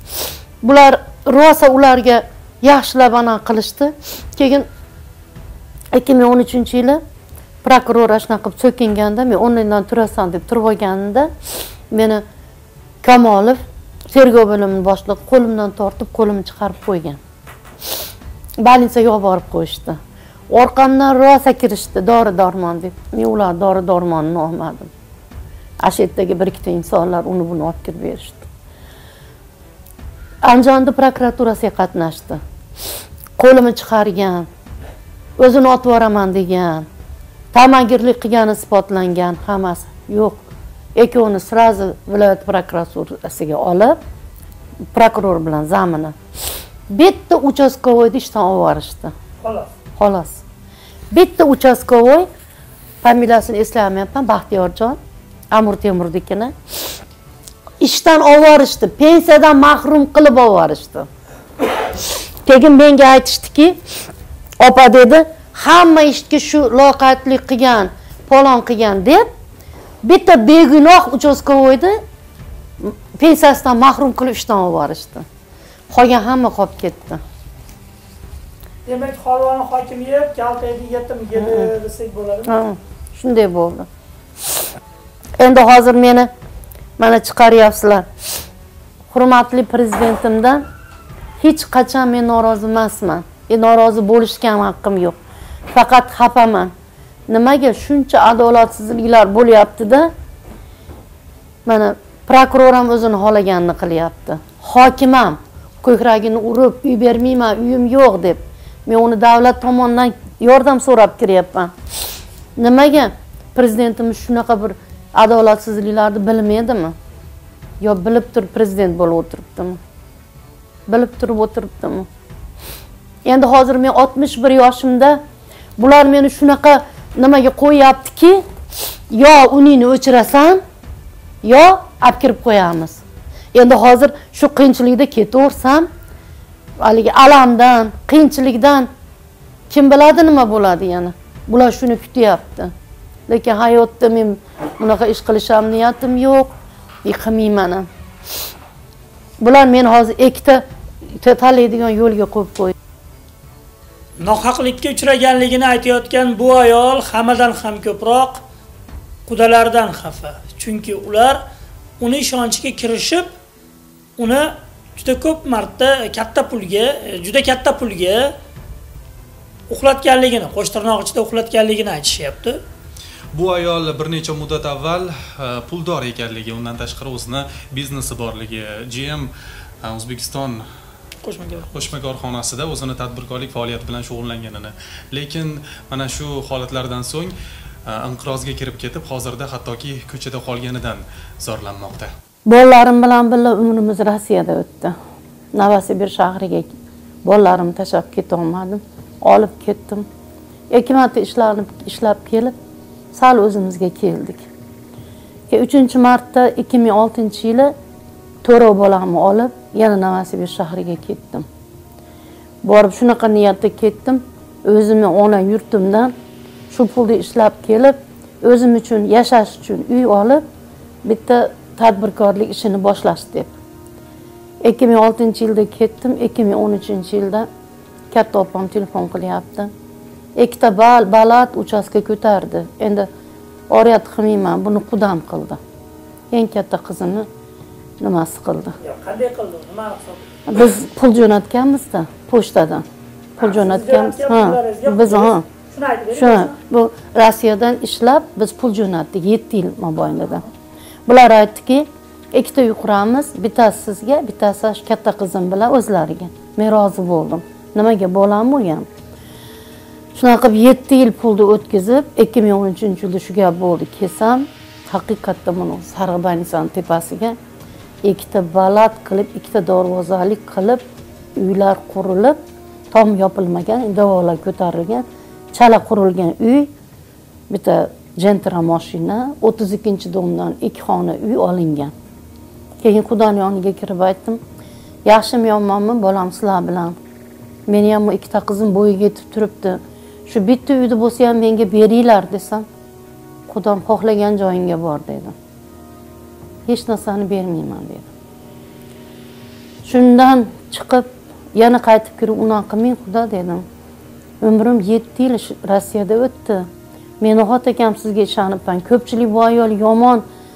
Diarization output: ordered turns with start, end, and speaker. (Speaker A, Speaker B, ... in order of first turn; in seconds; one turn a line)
Speaker A: 0.6-4.7
Speaker A: 5.9-7.0
Speaker A: 7.6-11.3
Speaker A: 11.9-12.2
Speaker A: 13.0-13.6
Speaker A: 14.1-17.2
Speaker A: 18.6-20.0
Speaker A: 20.5-24.9
Speaker A: 25.8-28.4
Speaker A: 30.4-32.4
Speaker A: 33.4-34.5
Speaker A: 35.4-36.9
Speaker A: 37.5-44.0
Speaker A: 44.9-46.1
Speaker A: 46.9-49.1
Speaker B: 49.4-49.7
Speaker A: 50.0-50.4
Speaker A: 51.1-52.3
Speaker A: 53.0-55.0
Speaker A: 55.5-56.5
Speaker A: 57.8-61.1
Speaker A: 62.4-63.8
Speaker A: 64.6-69.3
Speaker A: 70.0-72.0
Speaker A: 72.8-75.2
Speaker A: 75.9-77.2
Speaker B: 78.8-82.6
Speaker A: 81.4-81.7
Speaker A: 82.5-83.9
Speaker A: 85.4-86.3
Speaker A: 87.0-88.1
Speaker A: 89.1-90.6
Speaker A: 91.4-95.2
Speaker A: 95.7-96.7
Speaker A: 97.3-100.1
Speaker A: 101.6-111.7
Speaker A: 112.6-116.9
Speaker A: 117.8-119.8
Speaker A: 120.9-122.1
Speaker A: 123.2-125.2
Speaker A: 125.8-128.4
Speaker A: 129.1-130.6
Speaker A: 131.4-133.0
Speaker A: 133.5-135.9
Speaker A: 136.8-138.9
Speaker A: 139.7-142.7
Speaker A: 143.3-146.5
Speaker A: 147.0-147.9
Speaker A: 149.4-152.7
Speaker B: 154.2-158.4
Speaker B: 159.3-161.4
Speaker B: 162.0-163.3
Speaker B: 164.2-168.3
Speaker B: 169.7-172.6
Speaker C: 173.3-179.3
Speaker C: 179.8-180.6
Speaker B: 181.2-181.8
Speaker C: 181.7-187.3
Speaker C: 187.9-192.1
Speaker A: 192.4-194.9
Speaker A: 195.5-196.7
Speaker A: 197.2-200.1
Speaker A: 200.7-202.5
Speaker A: 203.1-204.4
Speaker A: 205.5-207.7
Speaker A: 208.4-211.4
Speaker A: 212.6-216.1
Speaker A: 216.7-220.4
Speaker A: 221.0-223.5
Speaker A: 224.6-227.5
Speaker A: 228.1-229.7
Speaker A: 230.4-233.1
Speaker A: 233.7-235.6
Speaker A: 236.3-237.3
Speaker A: 238.0-238.8
Speaker B: 238.8-240.2
Speaker A: 240.5-242.8
Speaker A: 243.4-245.4
Speaker B: 243.4-246.5
Speaker A: 246.1-250.4
Speaker A: 251.1-258.9
Speaker A: 260.1-267.4
Speaker A: 268.0-270.8
Speaker A: 271.4-272.4
Speaker A: 272.9-276.7
Speaker A: 277.5-281.9
Speaker A: 282.8-284.4
Speaker A: 285.0-287.0
Speaker A: 287.7-292.6
Speaker A: 293.5-295.3
Speaker A: 296.6-298.1
Speaker A: 299.8-303.6
Speaker A: 304.4-306.7
Speaker A: 307.2-310.2